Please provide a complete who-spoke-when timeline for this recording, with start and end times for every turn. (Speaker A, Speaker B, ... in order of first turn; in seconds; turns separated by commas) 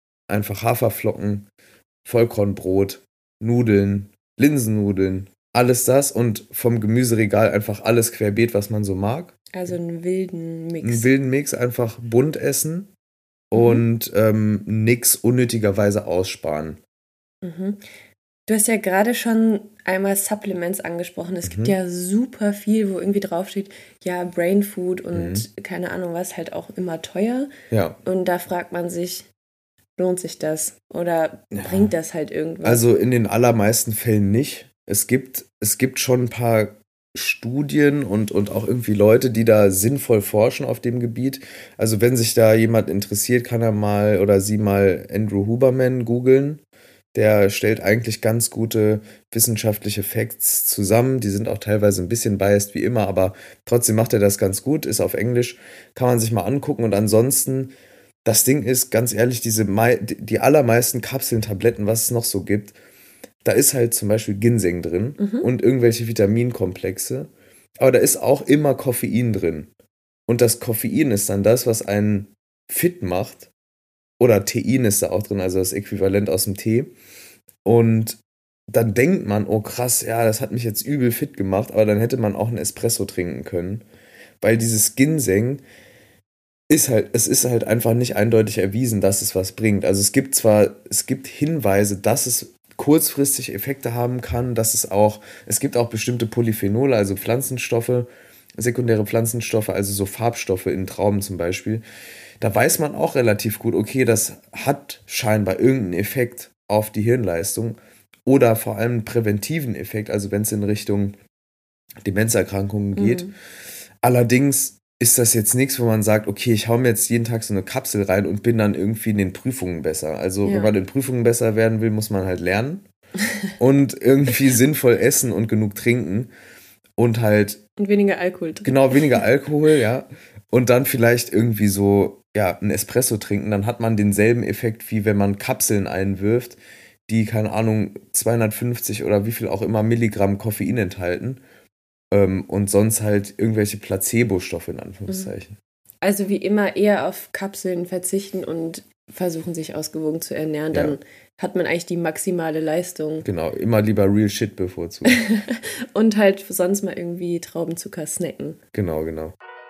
Speaker A: 0.3-1.5, Speaker A: 2.0-9.7, Speaker B: 9.5-11.1, Speaker A: 10.8-12.9, Speaker A: 13.5-16.8, Speaker B: 13.5-13.8, Speaker B: 17.4-17.8, Speaker B: 18.5-27.5, Speaker A: 21.4-21.8, Speaker A: 25.1-25.4, Speaker A: 27.7-28.0, Speaker B: 28.1-29.3, Speaker B: 30.0-32.9, Speaker A: 31.6-31.9, Speaker A: 32.6-46.6, Speaker A: 47.1-57.7, Speaker A: 58.2-62.8, Speaker A: 63.4-69.7, Speaker B: 65.2-65.5, Speaker A: 70.3-73.5, Speaker A: 74.2-76.9, Speaker A: 77.7-83.8, Speaker A: 84.4-85.6, Speaker A: 86.7-101.8, Speaker A: 102.4-111.2, Speaker A: 112.0-113.3, Speaker B: 113.0-113.3, Speaker A: 114.0-122.8, Speaker B: 120.4-120.7, Speaker A: 123.6-126.3, Speaker A: 127.0-127.6, Speaker B: 127.8-129.2, Speaker A: 128.6-141.4, Speaker A: 142.1-145.6, Speaker B: 146.0-153.3, Speaker A: 150.7-151.0, Speaker A: 153.2-155.2, Speaker B: 155.1-158.6, Speaker A: 158.7-159.3